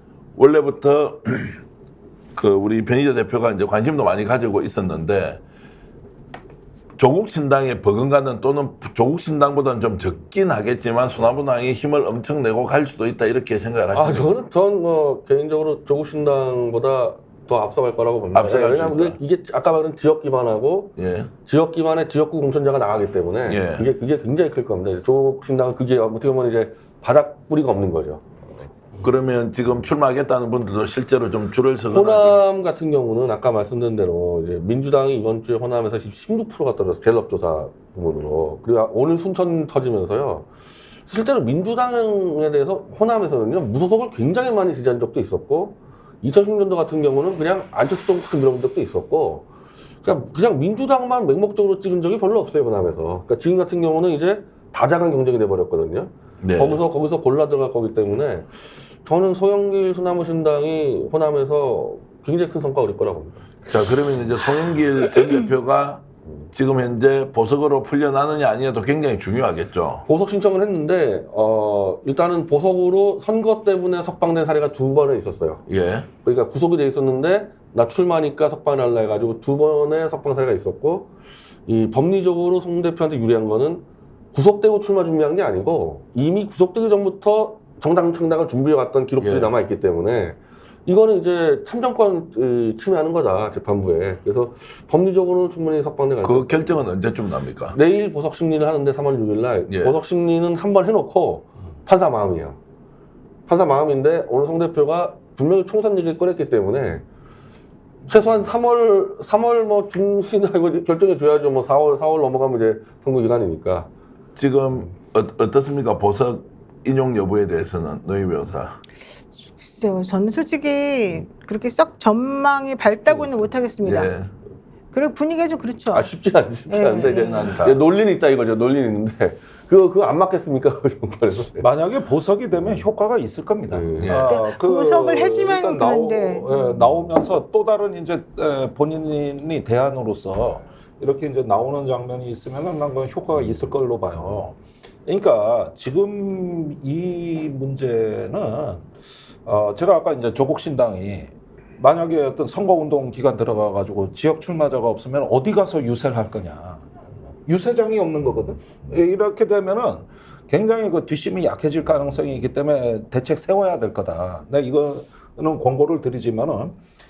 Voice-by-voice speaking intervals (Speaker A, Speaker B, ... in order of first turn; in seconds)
Speaker A: 0.3-1.6, 2.3-5.4, 7.0-14.3, 18.3-19.2, 21.0-21.3, 23.5-23.9, 29.0-32.4, 56.4-56.8, 63.6-70.0, 75.7-76.1, 89.2-89.5, 96.2-97.8, 99.7-100.0, 114.3-118.8, 123.8-124.3, 127.1-127.8, 134.0-134.3
Speaker B: 13.9-20.9, 21.4-28.5, 31.9-40.5, 41.1-49.5, 50.0-58.5, 59.0-63.5, 70.0-75.6, 76.2-81.1, 81.7-96.9, 97.7-102.6, 103.5-107.0, 108.1-113.9, 123.1-123.5, 125.9-131.7, 133.7-134.3
Speaker C: 119.6-124.1, 124.9-126.1, 126.7-127.5, 134.3-136.8
Speaker D: 131.6-148.9, 149.4-156.8, 157.4-166.8